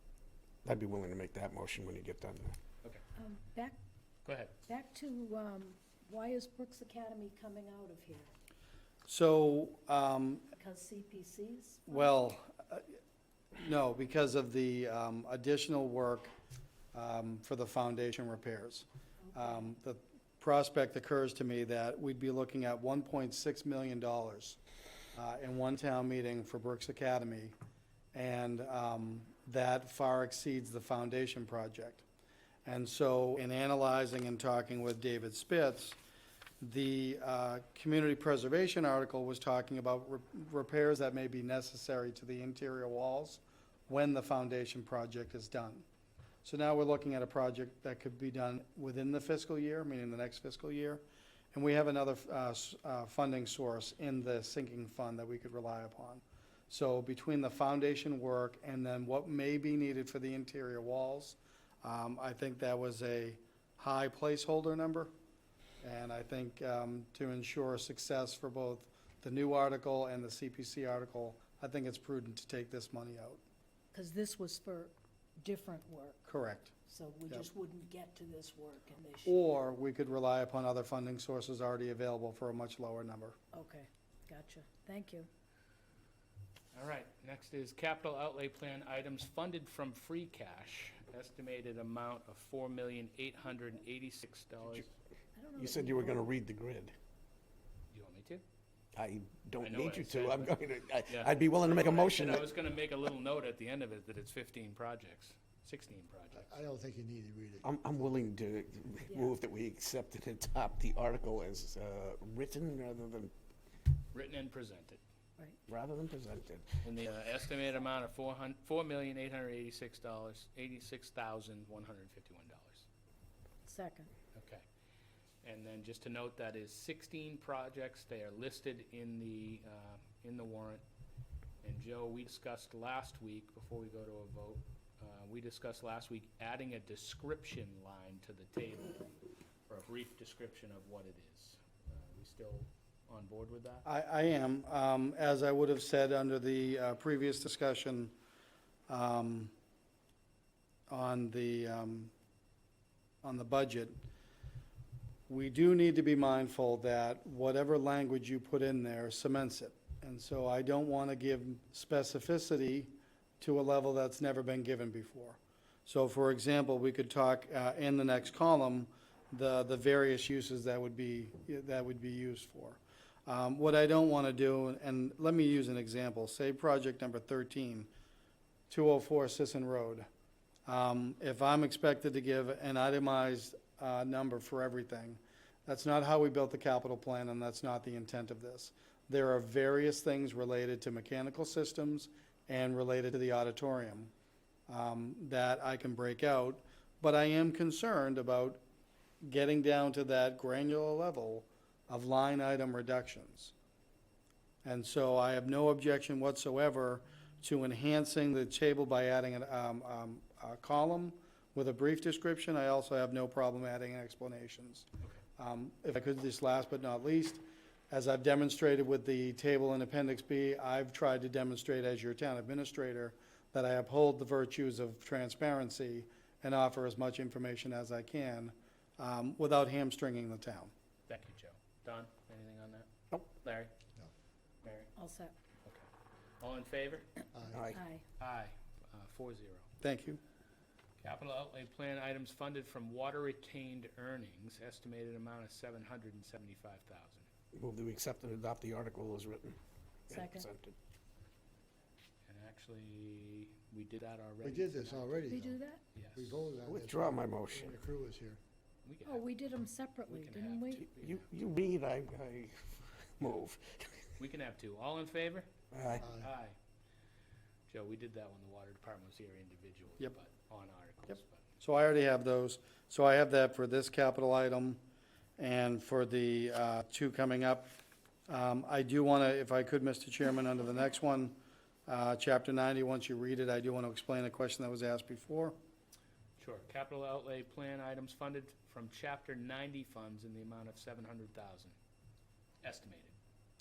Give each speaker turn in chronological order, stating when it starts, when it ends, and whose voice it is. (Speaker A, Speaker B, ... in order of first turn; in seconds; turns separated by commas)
Speaker A: 0.6-2.6, Speaker B: 3.1-3.8, Speaker C: 4.2-4.5, Speaker B: 4.6-8.3, Speaker D: 9.1-10.5, Speaker B: 10.5-12.2, Speaker D: 11.9-12.8, Speaker D: 13.6-16.3, Speaker D: 16.9-24.6, Speaker D: 25.1-27.5, Speaker D: 28.1-32.0, Speaker D: 32.6-36.0, Speaker D: 36.6-45.9, Speaker D: 46.4-51.0, Speaker D: 51.5-65.1, Speaker D: 65.8-73.4, Speaker B: 73.9-76.3, Speaker D: 76.3-76.7, Speaker B: 76.8-79.4, Speaker D: 79.2-83.3, Speaker B: 83.5-85.3, Speaker C: 86.7-94.9, Speaker B: 95.3-96.2, Speaker A: 95.6-96.9, Speaker C: 97.9-98.4, Speaker A: 98.9-102.5, Speaker C: 99.6-100.5, Speaker C: 101.1-106.5, Speaker E: 106.3-107.8, Speaker A: 107.6-113.3, Speaker C: 114.1-115.0, Speaker A: 115.7-116.8, Speaker C: 116.8-122.8, Speaker B: 123.6-124.1, Speaker C: 124.3-124.6, Speaker C: 125.4-130.8, Speaker C: 131.6-139.1, Speaker C: 139.7-143.8, Speaker D: 143.8-148.1, Speaker D: 148.9-149.5, Speaker D: 150.9-152.1, Speaker D: 153.2-153.9, Speaker D: 155.3-177.9, Speaker D: 178.7-180.1, Speaker D: 180.7-194.1, Speaker D: 194.7-198.6, Speaker D: 199.2-203.5, Speaker D: 204.6-214.9, Speaker D: 215.4-230.7, Speaker C: 231.1-232.9, Speaker C: 233.4-233.7, Speaker C: 234.6-234.9, Speaker B: 234.9-235.3, Speaker C: 236.4-237.1, Speaker E: 237.3-237.7, Speaker A: 237.5-237.8, Speaker B: 237.7-238.0, Speaker C: 238.2-239.7, Speaker D: 239.8-240.2, Speaker C: 241.0-247.2, Speaker A: 247.5-249.6, Speaker A: 250.1-250.7, Speaker B: 250.1-250.5, Speaker C: 252.3-256.4, Speaker E: 254.4-255.5, Speaker B: 255.3-255.8, Speaker E: 256.1-258.4, Speaker A: 256.7-257.8, Speaker C: 258.8-259.2, Speaker B: 259.1-260.8, Speaker C: 260.1-261.3, Speaker A: 260.9-264.0, Speaker C: 264.2-266.6, Speaker A: 265.7-266.0, Speaker E: 266.0-266.3, Speaker C: 267.7-271.4, Speaker D: 271.6-274.8, Speaker D: 275.4-277.7, Speaker D: 278.3-285.6, Speaker C: 286.4-291.7, Speaker C: 292.6-293.1